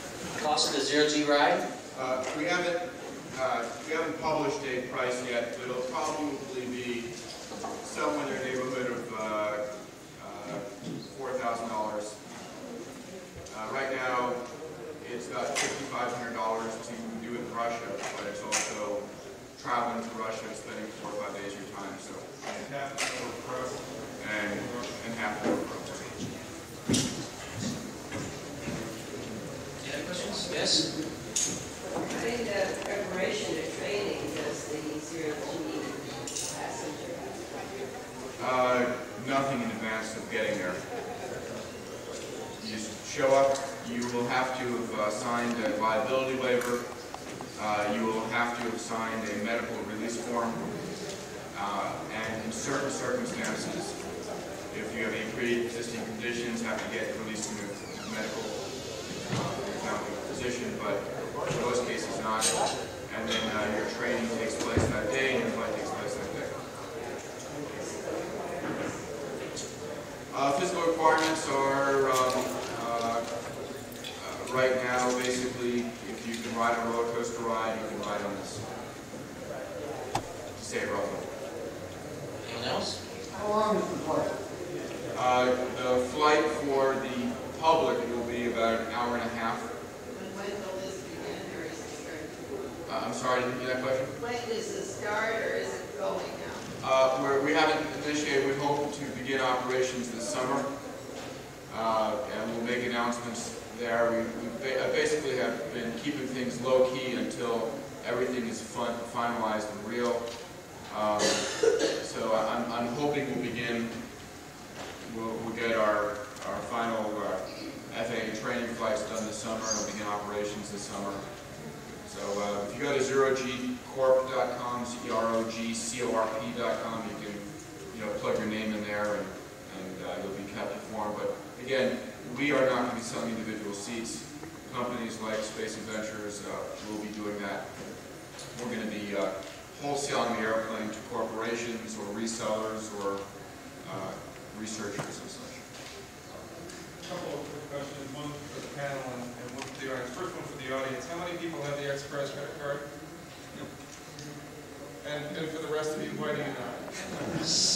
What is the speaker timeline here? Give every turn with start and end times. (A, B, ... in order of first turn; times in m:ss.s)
0:00.4-0:01.6 A
0:01.9-0:07.1 B
0:07.8-0:09.6 B
0:10.2-0:12.2 B
0:13.5-0:14.4 B
0:15.0-0:22.3 B
0:22.5-0:24.9 C
0:24.2-0:26.2 B
0:29.8-0:30.9 A
0:32.0-0:37.7 D
0:38.4-0:40.8 B
0:42.6-0:46.9 B
0:47.5-0:50.6 B
0:51.5-0:54.0 B
0:54.7-1:06.6 B
1:07.5-1:09.1 D
1:10.3-1:13.2 B
1:14.2-1:18.7 B
1:20.6-1:21.3 B
1:22.4-1:23.0 A
1:25.1-1:29.7 B
1:30.1-1:32.6 D
1:32.9-1:34.1 B
1:34.2-1:36.7 D
1:36.8-1:40.7 B
1:41.7-1:50.2 B
1:50.9-1:54.0 B
1:55.0-2:01.2 B
2:02.0-2:17.7 B
2:18.5-2:23.2 B
2:23.8-2:25.6 B
2:27.0-2:32.9 C
2:35.0-2:37.3 C